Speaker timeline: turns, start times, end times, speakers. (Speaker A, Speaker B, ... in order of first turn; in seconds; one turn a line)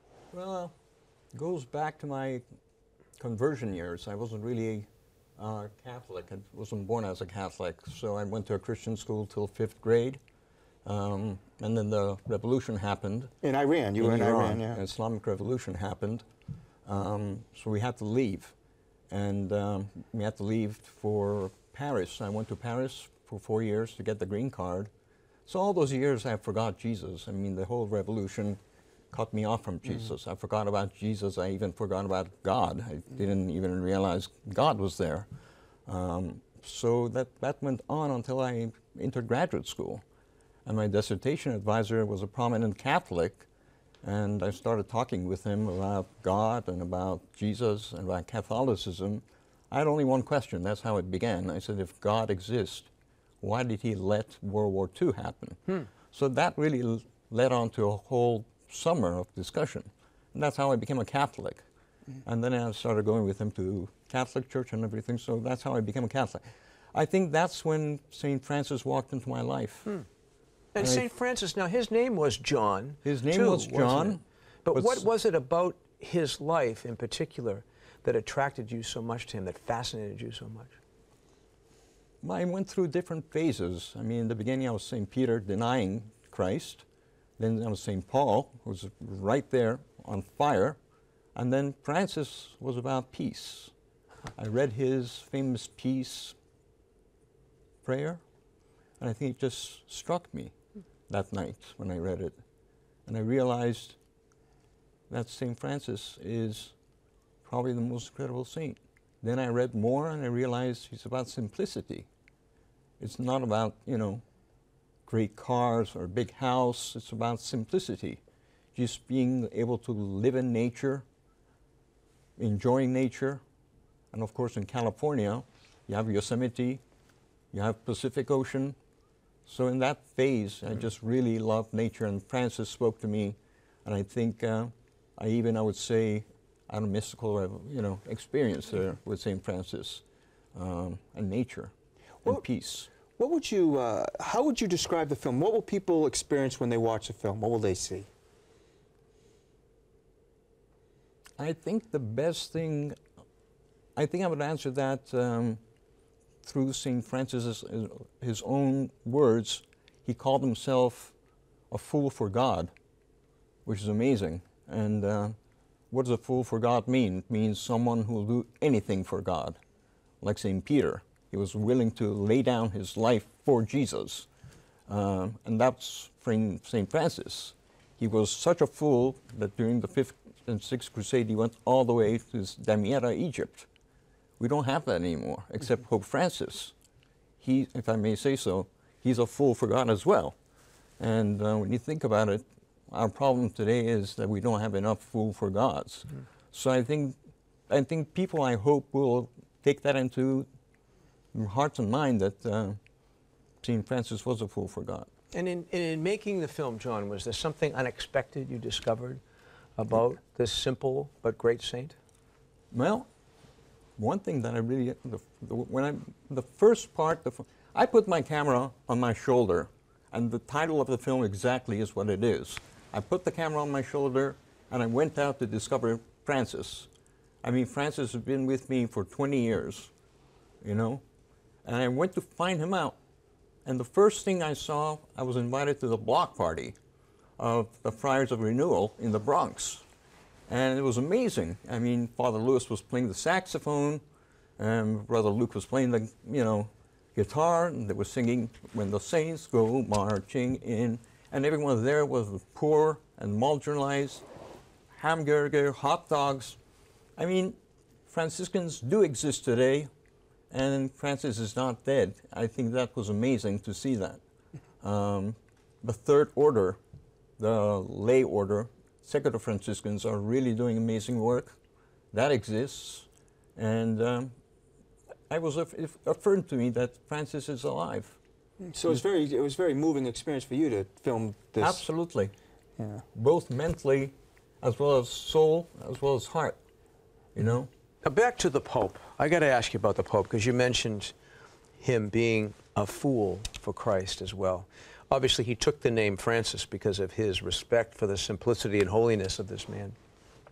Speaker A: 0.3-0.7
Speaker A: 1.3-2.4
Speaker A: 3.2-10.2
Speaker A: 10.8-13.3
Speaker B: 13.4-14.8
Speaker A: 14.0-16.2
Speaker A: 16.9-18.5
Speaker A: 19.1-24.9
Speaker A: 25.5-28.6
Speaker A: 29.1-35.3
Speaker A: 35.9-40.0
Speaker A: 40.7-43.5
Speaker A: 44.0-52.9
Speaker A: 53.4-61.6
Speaker A: 62.2-66.4
Speaker A: 66.9-70.0
Speaker C: 70.8-80.8
Speaker A: 70.8-71.1
Speaker A: 73.0-75.1
Speaker A: 82.2-86.8
Speaker A: 87.4-90.8
Speaker A: 91.3-93.7
Speaker A: 94.3-96.4
Speaker A: 97.8-98.2
Speaker A: 99.0-100.5
Speaker A: 101.1-102.4
Speaker A: 103.1-104.0
Speaker A: 105.1-106.7
Speaker A: 107.5-112.1
Speaker A: 113.0-114.2
Speaker A: 115.1-118.2
Speaker A: 118.8-121.0
Speaker A: 122.4-123.4
Speaker A: 124.1-126.8
Speaker A: 127.5-128.8
Speaker A: 129.5-140.0
Speaker A: 140.6-141.7
Speaker A: 142.2-142.9
Speaker B: 143.2-148.1
Speaker A: 151.4-153.0
Speaker A: 154.0-155.6
Speaker A: 156.4-161.2
Speaker A: 161.7-162.7
Speaker A: 163.7-165.3
Speaker A: 165.9-169.6
Speaker A: 170.2-174.3
Speaker A: 174.9-183.7
Speaker A: 184.4-186.7
Speaker A: 187.4-190.3
Speaker A: 191.0-197.2
Speaker A: 197.7-200.5
Speaker A: 201.3-202.8
Speaker A: 203.6-205.1
Speaker C: 205.3-209.2
Speaker C: 209.8-212.0
Speaker A: 212.7-213.1
Speaker A: 214.0-226.9
Speaker A: 227.4-229.9
Speaker A: 230.6-231.0
Speaker A: 231.6-233.0
Speaker A: 233.7-236.8
Speaker A: 237.4-239.8
Speaker A: 240.5-244.0
Speaker A: 244.6-254.2
Speaker A: 254.9-256.6
Speaker A: 257.2-259.9
Speaker A: 260.5-264.2
Speaker A: 264.8-266.8
Speaker A: 267.4-271.6
Speaker A: 272.1-274.3
Speaker A: 275.3-278.2
Speaker B: 278.7-281.9
Speaker A: 281.6-282.3
Speaker B: 282.8-283.0
Speaker A: 283.1-286.6
Speaker A: 287.4-287.7
Speaker C: 288.0-291.1
Speaker C: 291.8-300.0